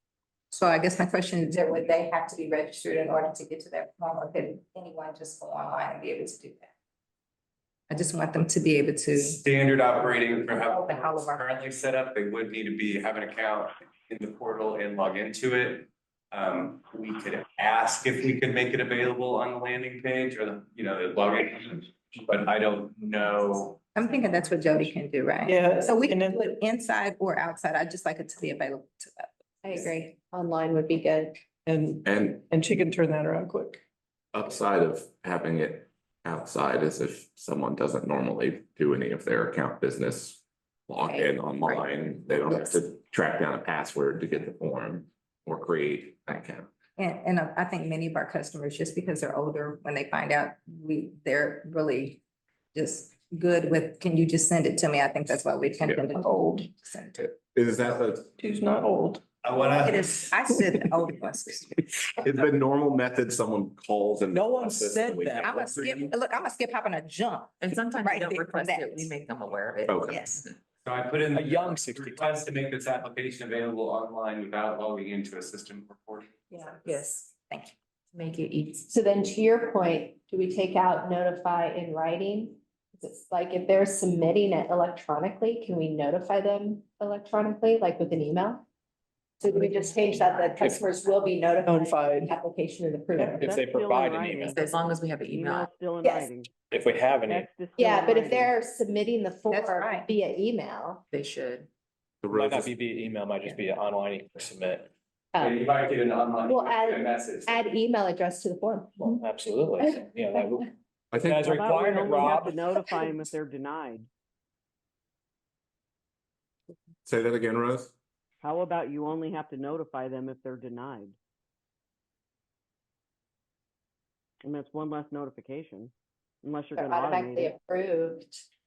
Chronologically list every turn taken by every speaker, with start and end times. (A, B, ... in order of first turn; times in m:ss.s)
0:00.5-0:06.7 A
0:07.9-0:09.4 A
0:09.2-0:23.8 B
0:10.4-0:11.4 A
0:23.9-0:29.3 A
0:24.1-0:24.4 C
0:25.4-0:26.4 D
0:29.6-0:31.4 C
0:31.7-0:33.8 D
0:32.0-0:32.5 E
0:34.3-0:46.7 E
0:41.0-0:41.3 C
0:47.0-0:52.2 A
0:52.8-0:57.2 A
0:55.8-0:56.1 E
0:56.2-0:56.6 D
0:57.2-0:58.3 E
0:58.4-0:59.2 D
0:59.4-1:00.3 B
0:59.7-1:01.8 A
1:00.5-1:00.8 D
1:02.2-1:05.7 E
1:04.3-1:05.0 D
1:04.4-1:06.1 F
1:05.4-1:09.2 A
1:07.6-1:10.5 G
1:09.8-1:10.1 E
1:10.0-1:10.4 A
1:10.8-1:16.3 B
1:11.3-1:12.4 F
1:16.5-1:16.8 C
1:16.8-1:17.3 G
1:16.9-1:17.7 A
1:18.1-1:18.8 G
1:18.9-1:28.6 C
1:29.4-1:33.6 C
1:30.6-1:30.8 F
1:31.6-1:32.3 D
1:33.3-1:34.6 F
1:33.5-1:36.5 H
1:34.5-1:35.7 G
1:36.7-1:37.5 F
1:37.2-1:38.5 H
1:37.8-1:41.0 C
1:39.5-1:40.1 A
1:41.1-1:41.7 G
1:42.2-1:42.7 E
1:42.3-1:44.9 F
1:45.3-1:45.6 C
1:45.4-1:47.6 B
1:46.4-1:49.2 C
1:49.0-1:50.7 F
1:51.1-1:51.4 E
1:51.2-1:52.8 F
1:51.4-1:54.1 H
1:57.1-1:57.9 E
1:58.4-2:01.2 H
2:04.4-2:05.9 H
2:06.4-2:07.5 H
2:06.8-2:08.4 C